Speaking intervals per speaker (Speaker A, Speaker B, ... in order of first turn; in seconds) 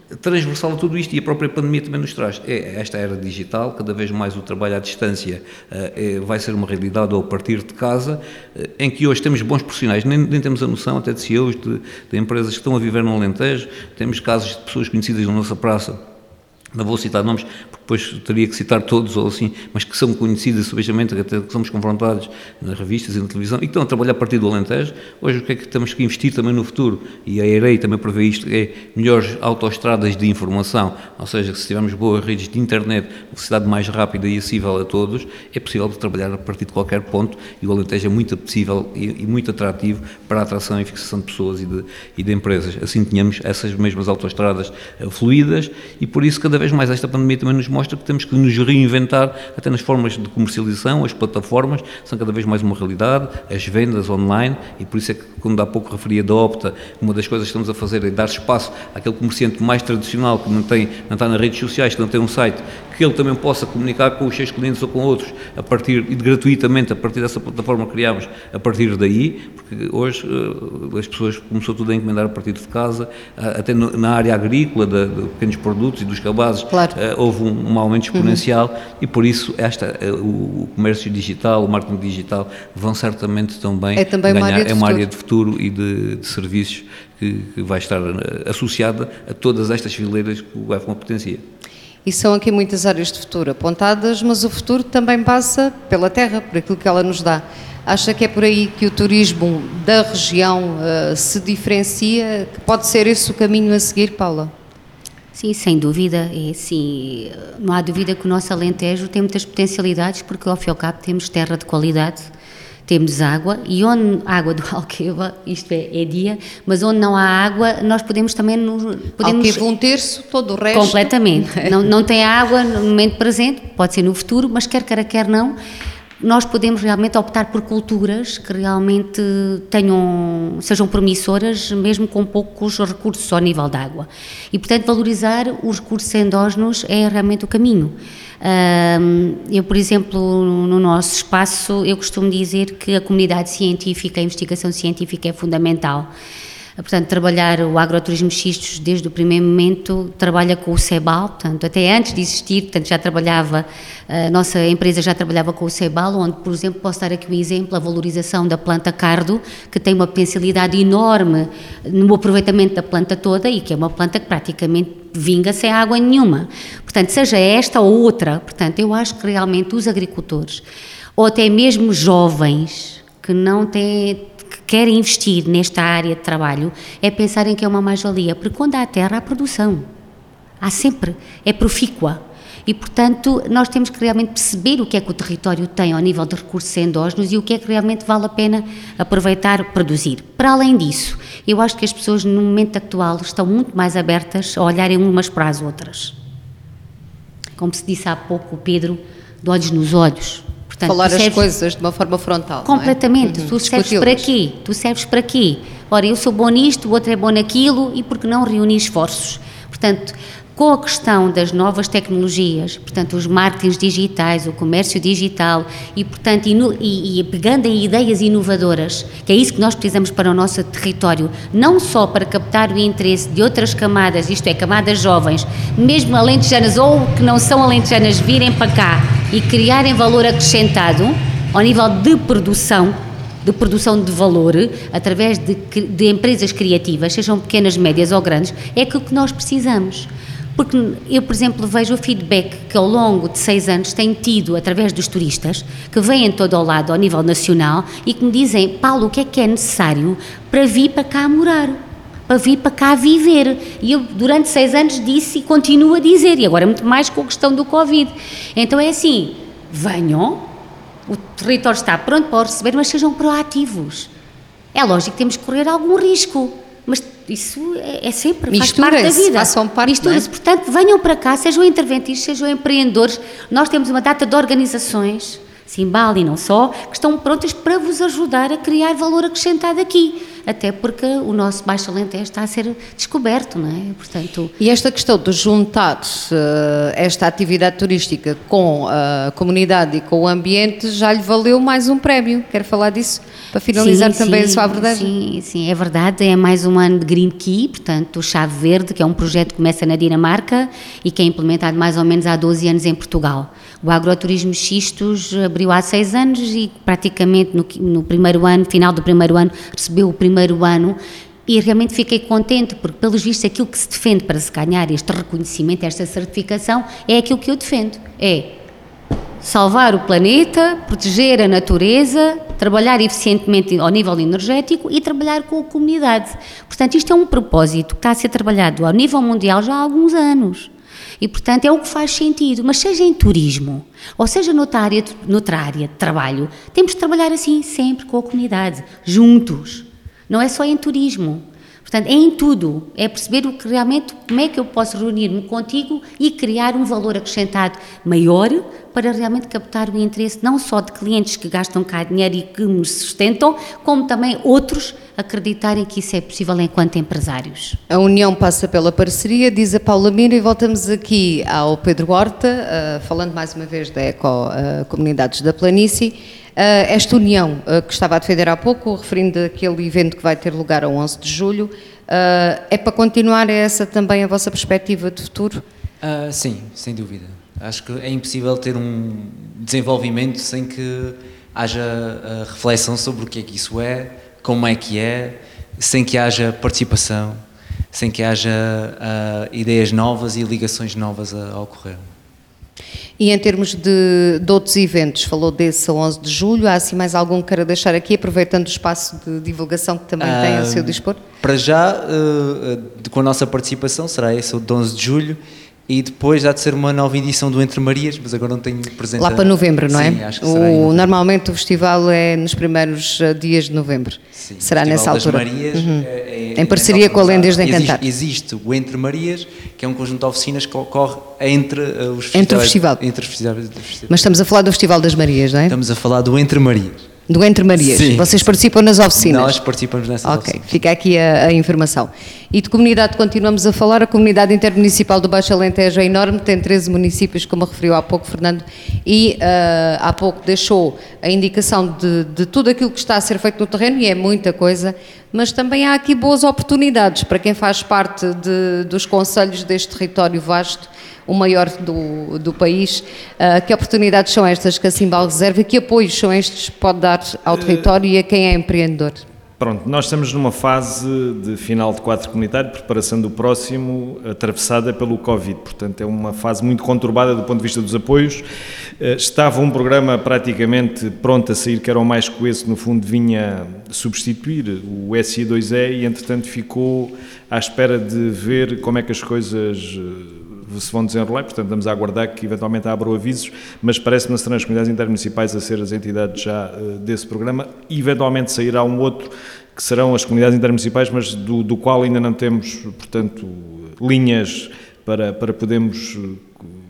Speaker A: 0.2-16.0, 16.7-91.4
Speaker B: 76.7-77.0, 78.1-78.4, 84.0-85.0, 92.0-104.5, 119.2-121.7, 200.8-204.3, 268.5-270.2, 284.6-295.1, 357.9-375.6, 393.2-401.2, 409.2-418.0, 422.3-423.0, 424.1-425.8, 427.3-429.5, 430.2-459.2
Speaker C: 105.3-112.3, 112.8-119.6, 120.7-125.6, 126.2-146.1, 146.8-170.6, 171.2-179.9, 180.6-196.2, 197.6-201.5, 202.6-260.5, 261.1-264.1, 264.7-284.5, 293.7-318.6, 319.4-357.8
Speaker D: 376.0-387.4, 387.9-392.1, 400.2-411.1, 414.3-424.3, 425.7-427.1, 427.8-428.4, 429.1-430.8
Speaker E: 459.6-468.4, 469.0-496.4